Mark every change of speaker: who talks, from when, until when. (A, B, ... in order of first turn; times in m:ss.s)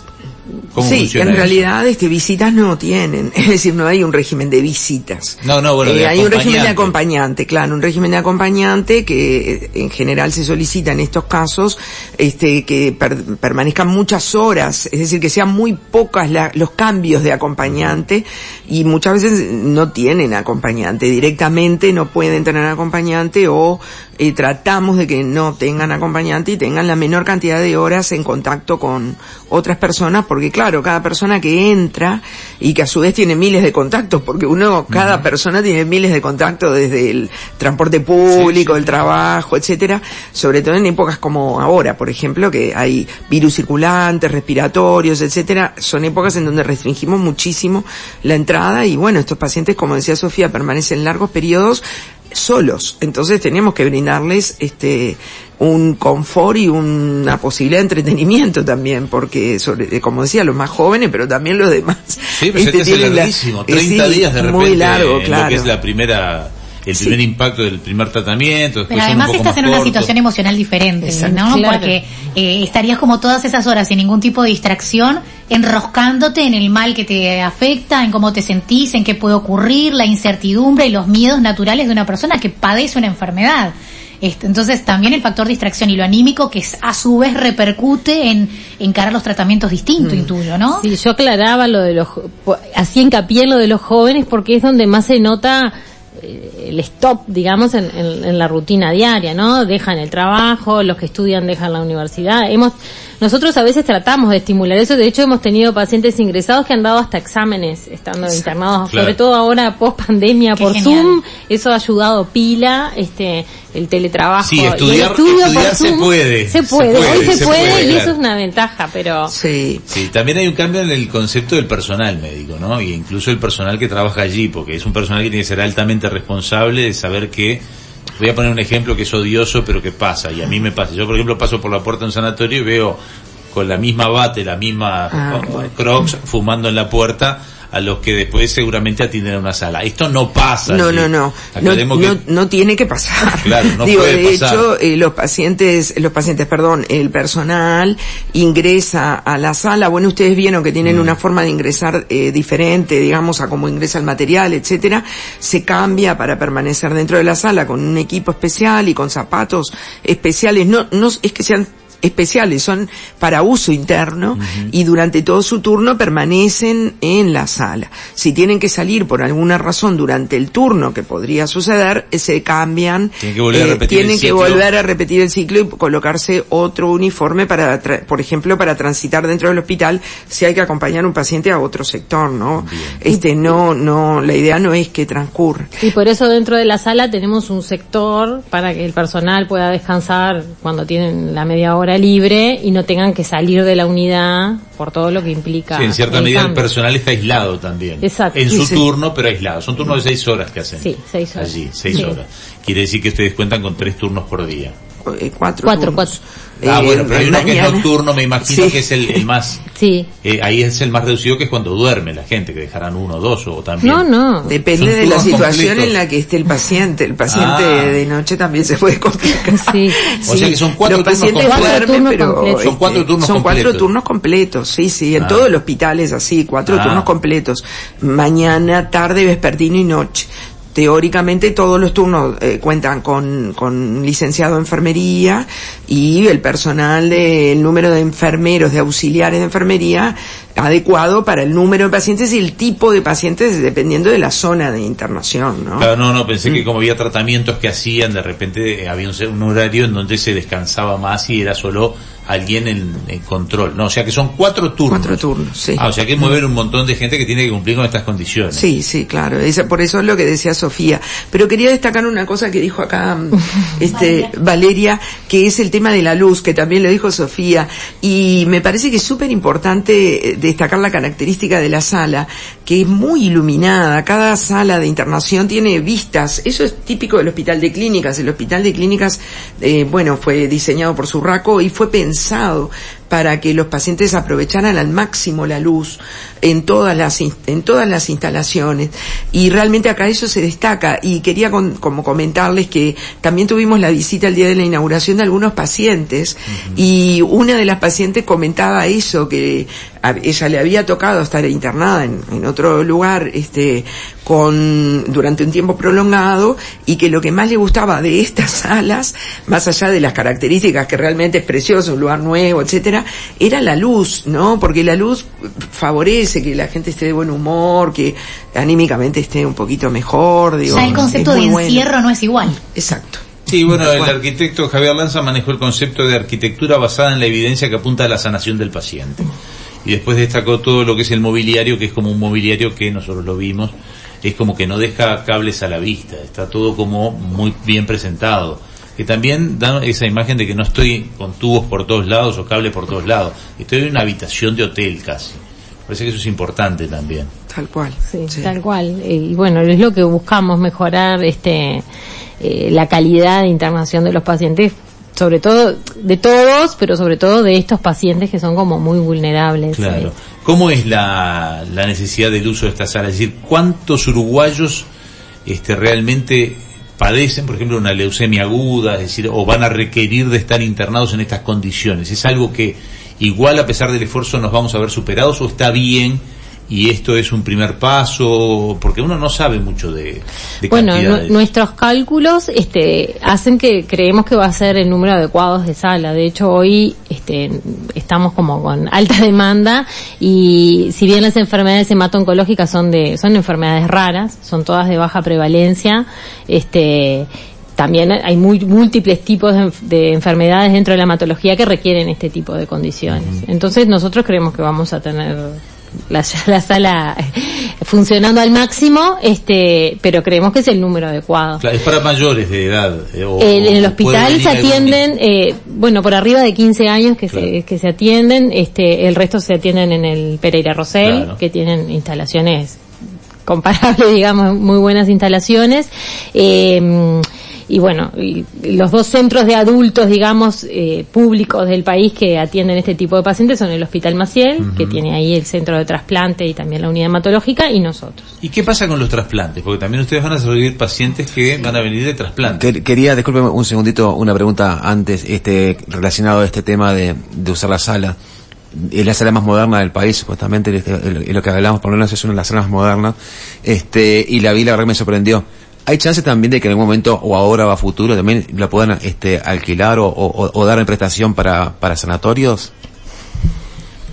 0:00.7-0:01.7 A
0:00.8-1:05.7 B
0:05.4-0:07.0 A
0:34.9-0:35.2 A
0:38.3-0:39.0 A
1:02.3-1:10.1 A
1:08.9-1:30.8 C
1:11.1-1:11.3 B
1:11.2-1:12.0 D
1:30.7-1:59.3 D
1:48.9-1:49.2 A
1:50.6-1:51.1 C
1:54.4-1:58.2 A
1:57.0-1:57.7 B
1:59.3-1:59.8 B
1:59.9-2:07.6 A
2:08.2-2:13.0 A
2:13.5-2:22.2 A
2:15.1-2:15.6 B
2:20.7-3:05.8 B
2:23.4-2:24.7 A
2:30.8-2:31.2 A
2:44.4-2:44.7 A
2:53.2-2:54.6 A
3:02.6-3:03.0 A
3:05.8-3:16.7 D
3:15.7-3:24.7 A
3:18.0-3:18.5 D
3:18.5-3:18.8 B
3:20.8-3:22.2 D
3:25.0-3:27.9 B
3:25.6-3:26.2 D
3:26.6-3:29.6 A
3:28.4-3:29.2 B
3:29.8-3:30.1 D
3:30.2-3:34.1 A
3:33.8-3:34.6 D
3:34.4-4:05.9 B
3:34.8-3:35.9 A
3:37.3-3:38.0 A
3:39.6-3:40.0 D
3:40.3-3:41.9 A
3:41.4-3:42.7 D
3:42.6-3:43.9 A
3:45.2-3:45.5 A
3:46.7-3:47.1 A
4:05.8-4:15.2 A
4:14.9-4:16.4 B
4:15.8-4:18.7 A
4:18.5-5:21.9 B
4:56.5-4:56.8 A
5:20.7-5:21.2 A
5:20.7-5:22.6 C
5:22.6-5:24.2 B
5:23.5-5:29.3 A
5:29.8-5:47.3 A
5:47.5-5:48.6 B
5:48.1-5:51.8 D
5:52.4-6:00.1 D
5:59.7-6:04.9 A
6:05.5-6:21.4 A
6:20.7-6:51.6 D
6:43.1-6:43.4 A
6:51.6-6:55.0 A
6:53.4-7:02.8 D
7:01.0-7:01.4 A
7:03.4-7:18.3 D
7:14.6-7:15.0 A
7:18.4-7:22.6 A
7:22.5-7:28.2 E
7:28.7-7:42.7 E